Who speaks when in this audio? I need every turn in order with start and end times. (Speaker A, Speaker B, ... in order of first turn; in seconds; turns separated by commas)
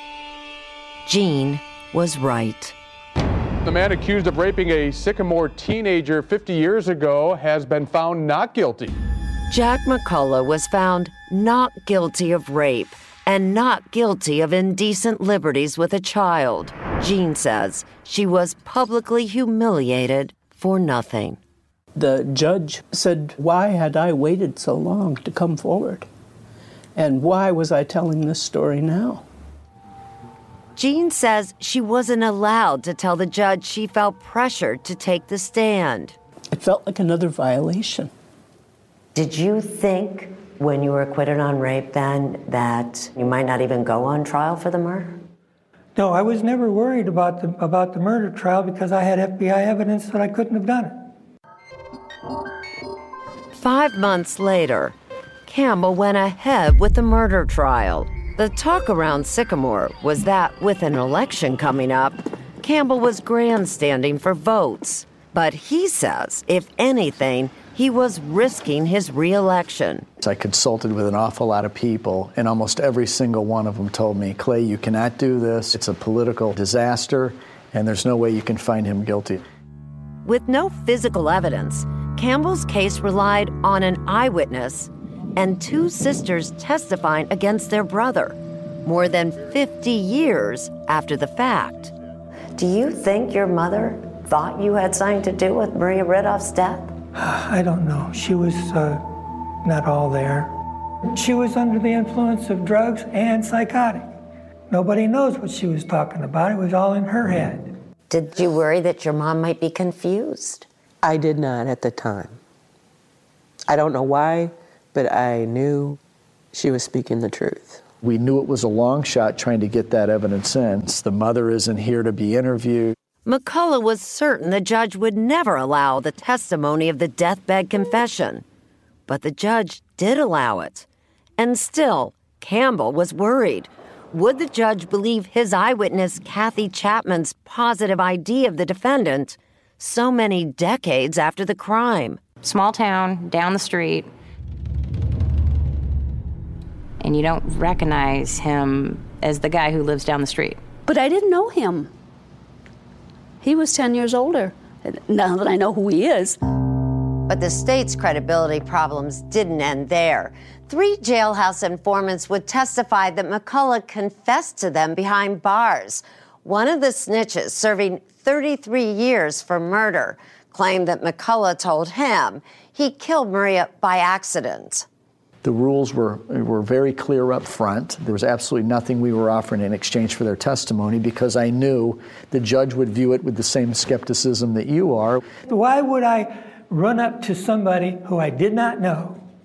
Speaker A: 1.1-2.8, Speaker B: 3.6-8.9, Speaker A: 9.5-21.4, Speaker C: 21.9-26.1, Speaker C: 27.0-29.2, Speaker A: 30.8-36.2, Speaker C: 36.5-38.1, Speaker D: 39.1-45.2, Speaker E: 46.0-51.1, Speaker A: 53.6-55.0, Speaker A: 55.5-70.1, Speaker F: 70.2-79.4, Speaker A: 80.2-91.9, Speaker D: 92.6-96.9, Speaker E: 97.2-99.1, Speaker E: 99.6-100.5, Speaker E: 101.1-104.1, Speaker E: 104.7-107.7, Speaker D: 108.1-110.7, Speaker G: 111.0-112.4, Speaker G: 113.7-116.0, Speaker G: 116.5-117.8, Speaker F: 118.0-122.9, Speaker A: 123.3-128.4, Speaker A: 129.1-130.9, Speaker A: 131.4-142.2, Speaker H: 142.4-144.1, Speaker H: 147.0-150.6, Speaker I: 150.9-151.9, Speaker I: 153.4-156.4, Speaker A: 157.3-174.8, Speaker F: 175.4-185.2, Speaker E: 185.5-189.2